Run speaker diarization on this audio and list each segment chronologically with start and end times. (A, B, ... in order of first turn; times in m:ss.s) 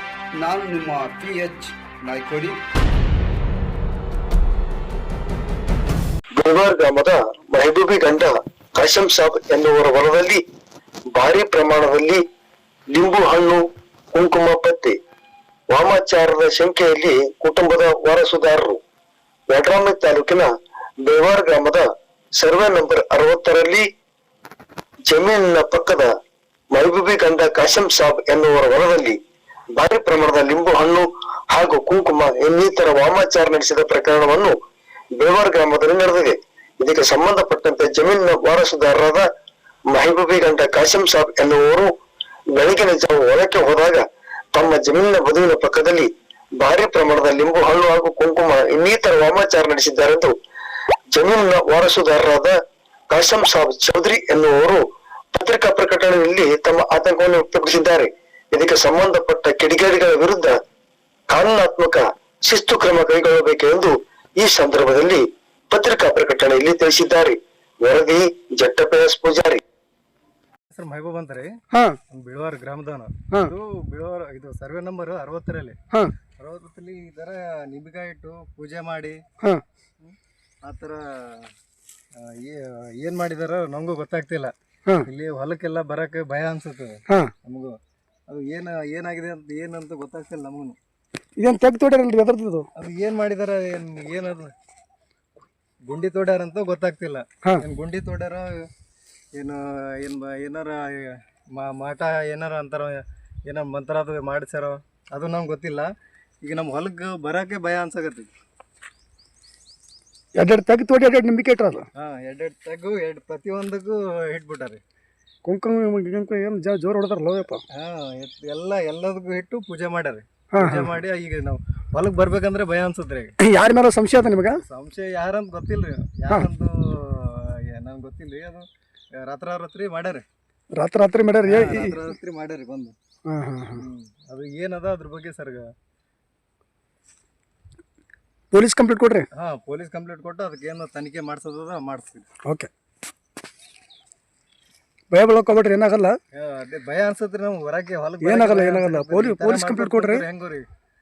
0:00.3-0:02.6 A
0:06.4-0:10.4 B
0:11.1-0:12.2 B
0:12.9-0:13.6 B
0:14.1-0:14.9 B
0:15.7-0:18.8 B
0:19.5-0:20.5 B
0:21.0-0:21.8 B
0:22.4-0:23.8 B
0:25.1-0:26.1 B
0:26.7-0:29.2 B
0:29.8-0:34.5 B
0:35.2-0:39.2 B
0:39.9-0:41.9 B
0:42.6-0:44.0 B
0:44.5-0:46.1 B
0:46.6-0:50.3 B
0:51.1-0:52.5 B
0:53.1-0:54.8 B
0:55.3-1:00.5 B
1:01.3-1:09.6 B
1:10.7-1:11.5 C
1:11.7-1:12.0 D
1:12.1-1:15.8 C
1:16.4-1:19.2 C
1:20.0-1:21.5 C
1:22.1-1:24.5 C
1:25.0-1:27.8 C
1:28.3-1:30.8 C
1:31.4-1:32.6 D
1:32.8-1:34.5 C
1:35.8-1:38.7 C
1:39.3-1:45.9 C
1:46.4-1:48.3 C
1:50.4-1:51.8 D
1:51.9-1:54.8 C
1:55.4-1:57.6 D
1:57.7-2:03.3 C
2:00.5-2:00.9 D
2:03.4-2:04.6 D
2:04.6-2:08.6 C
2:09.2-2:10.2 C
2:10.8-2:12.1 D
2:11.4-2:13.0 C
2:13.3-2:13.8 D
2:13.8-2:15.7 C
2:18.5-2:19.3 D
2:19.3-2:22.3 C
2:25.1-2:26.1 D
2:26.3-2:30.6 C
2:28.2-2:30.2 D